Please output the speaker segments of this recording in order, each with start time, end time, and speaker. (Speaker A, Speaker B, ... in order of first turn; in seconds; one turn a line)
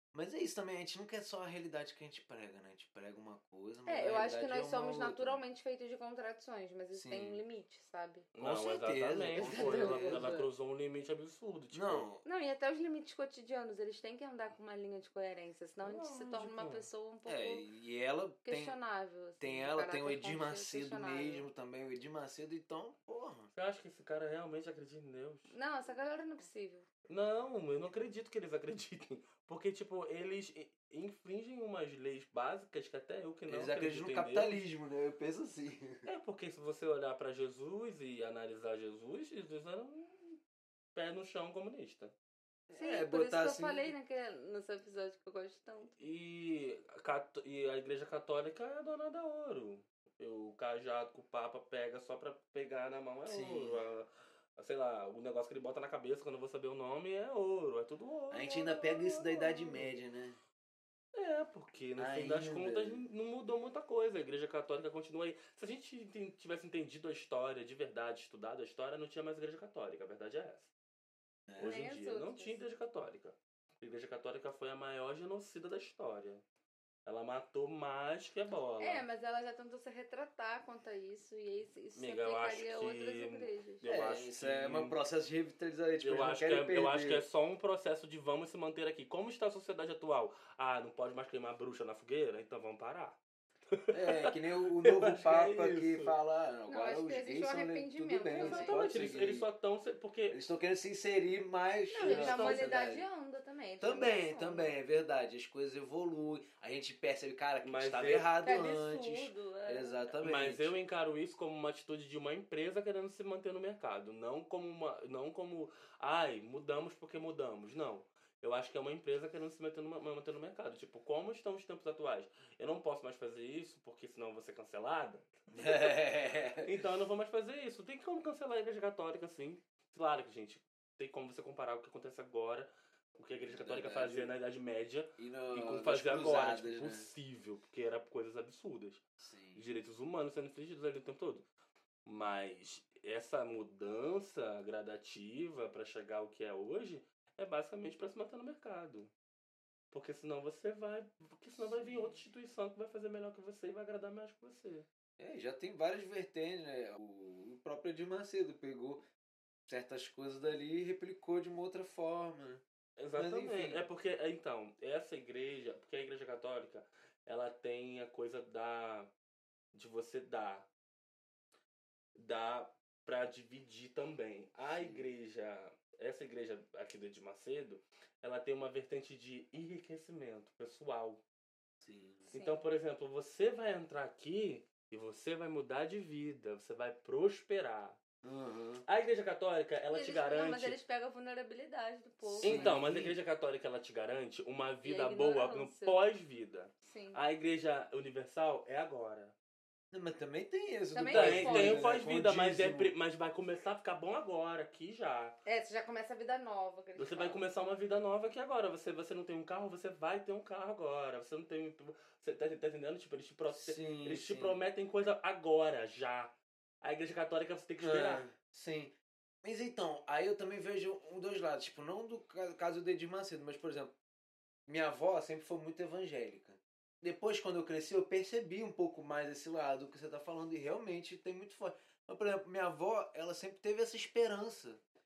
Speaker A: 0.1-5.4
Speaker B: 3.9-8.3
Speaker A: 6.9-7.4
Speaker C: 8.3-12.1
Speaker A: 8.4-10.5
Speaker B: 9.3-10.3
Speaker A: 11.7-12.2
Speaker B: 12.2-17.6
Speaker C: 15.8-16.9
Speaker A: 17.2-18.8
Speaker B: 18.4-21.5
Speaker A: 19.4-23.5
Speaker C: 23.5-25.5
Speaker B: 25.5-26.9
Speaker C: 27.1-34.6
Speaker A: 33.5-36.1
Speaker C: 36.0-40.4
Speaker C: 40.9-42.1
Speaker A: 42.7-43.9
Speaker B: 42.7-46.0
Speaker C: 46.0-59.9
Speaker A: 53.3-53.8
Speaker A: 58.3-60.4
Speaker C: 61.1-70.7
Speaker A: 62.0-63.0
Speaker A: 71.5-71.8
Speaker B: 71.6-72.6
Speaker C: 71.6-76.4
Speaker C: 77.0-79.1
Speaker B: 78.8-83.9
Speaker C: 81.9-85.0
Speaker A: 83.8-87.2
Speaker C: 86.0-93.2
Speaker C: 93.7-96.1
Speaker A: 93.9-99.5
Speaker B: 96.7-98.7
Speaker C: 98.3-100.4
Speaker A: 100.3-103.1
Speaker B: 101.9-104.7
Speaker C: 102.0-102.7
Speaker A: 103.8-110.8
Speaker C: 107.6-108.3
Speaker B: 108.4-110.0
Speaker C: 110.2-125.9
Speaker A: 125.5-126.8
Speaker C: 126.6-139.0
Speaker A: 133.5-134.3
Speaker A: 135.2-137.1
Speaker A: 139.2-139.6
Speaker C: 139.5-141.4
Speaker C: 142.1-149.1
Speaker C: 149.9-154.8
Speaker A: 151.6-152.2
Speaker A: 155.2-159.0
Speaker A: 159.7-162.6
Speaker C: 163.0-169.1
Speaker A: 163.2-163.9
Speaker C: 169.7-170.7
Speaker C: 172.1-181.2
Speaker A: 174.7-175.1
Speaker A: 181.8-182.3
Speaker B: 182.3-182.6
Speaker C: 182.3-188.0
Speaker A: 188.2-188.8
Speaker C: 188.8-190.8
Speaker B: 189.9-192.8
Speaker A: 192.4-193.2
Speaker C: 192.4-199.3
Speaker B: 194.8-196.0
Speaker B: 196.8-197.2
Speaker A: 199.9-202.9
Speaker B: 200.9-201.9
Speaker C: 201.1-205.4
Speaker B: 205.4-207.4
Speaker C: 207.0-218.2
Speaker A: 213.5-214.6
Speaker A: 217.8-223.9
Speaker A: 224.7-234.8